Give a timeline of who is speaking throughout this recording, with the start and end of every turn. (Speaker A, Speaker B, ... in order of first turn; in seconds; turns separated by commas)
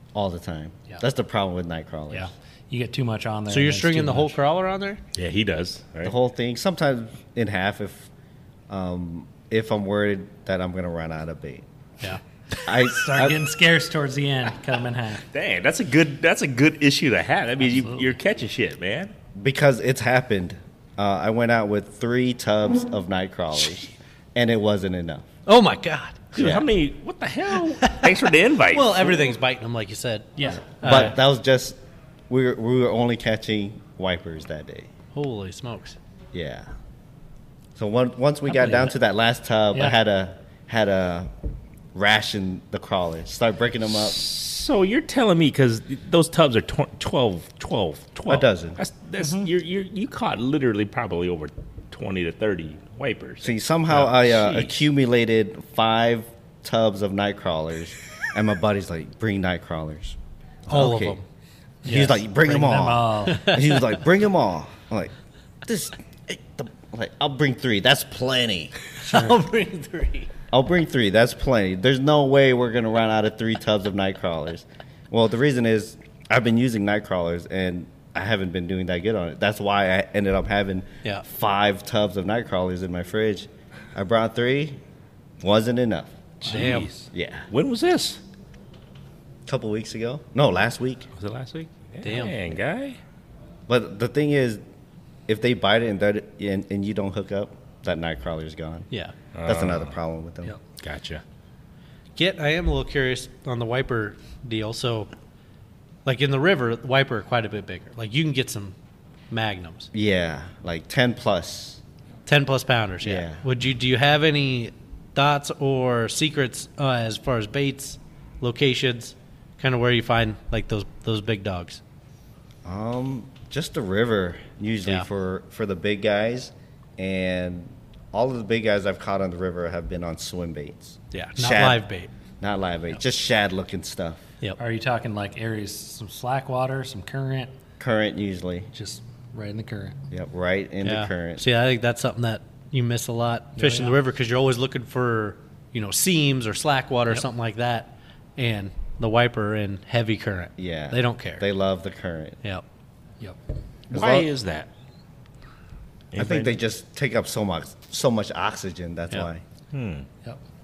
Speaker A: 0.1-2.3, Speaker B: 2.1-4.4, Speaker C: 3.5-5.0, Speaker D: 5.1-6.2, Speaker A: 6.0-8.1, Speaker A: 8.7-11.7, Speaker A: 12.6-13.4, Speaker B: 12.7-15.2, Speaker D: 15.3-19.1, Speaker B: 17.6-18.1, Speaker A: 19.3-25.3, Speaker C: 25.4-26.5, Speaker D: 26.3-29.2, Speaker A: 26.4-26.7, Speaker C: 27.8-28.1, Speaker C: 28.7-31.1, Speaker B: 30.4-30.8, Speaker A: 30.7-34.9, Speaker C: 35.1-36.0, Speaker A: 36.3-36.7, Speaker A: 37.8-41.3, Speaker A: 41.9-44.2, Speaker D: 44.0-54.8, Speaker A: 48.3-48.8, Speaker A: 53.4-61.2, Speaker C: 60.7-61.2, Speaker B: 61.8-63.6, Speaker A: 61.8-65.1, Speaker A: 65.6-68.7, Speaker C: 69.0-70.3, Speaker B: 69.1-69.3, Speaker A: 70.5-84.8, Speaker A: 85.4-87.5, Speaker D: 86.4-88.2, Speaker C: 86.5-86.9, Speaker A: 89.5-91.1, Speaker D: 91.2-93.0, Speaker C: 92.0-92.5, Speaker A: 93.7-94.6, Speaker A: 95.3-98.9, Speaker D: 99.3-100.0, Speaker A: 99.5-100.5, Speaker D: 100.8-101.2, Speaker C: 102.2-105.1, Speaker C: 106.0-108.7, Speaker C: 109.3-109.9, Speaker A: 109.9-111.8, Speaker C: 112.3-121.8, Speaker A: 113.0-113.4, Speaker A: 122.6-131.8, Speaker C: 131.1-132.1, Speaker A: 132.4-134.2, Speaker B: 134.6-137.5, Speaker A: 137.8-138.7, Speaker B: 138.7-140.0, Speaker A: 140.1-141.4, Speaker C: 140.8-151.4, Speaker B: 143.6-144.0, Speaker A: 150.6-152.4, Speaker A: 153.9-154.3, Speaker D: 153.9-154.7, Speaker D: 156.1-156.6, Speaker A: 156.2-159.4, Speaker D: 159.7-160.1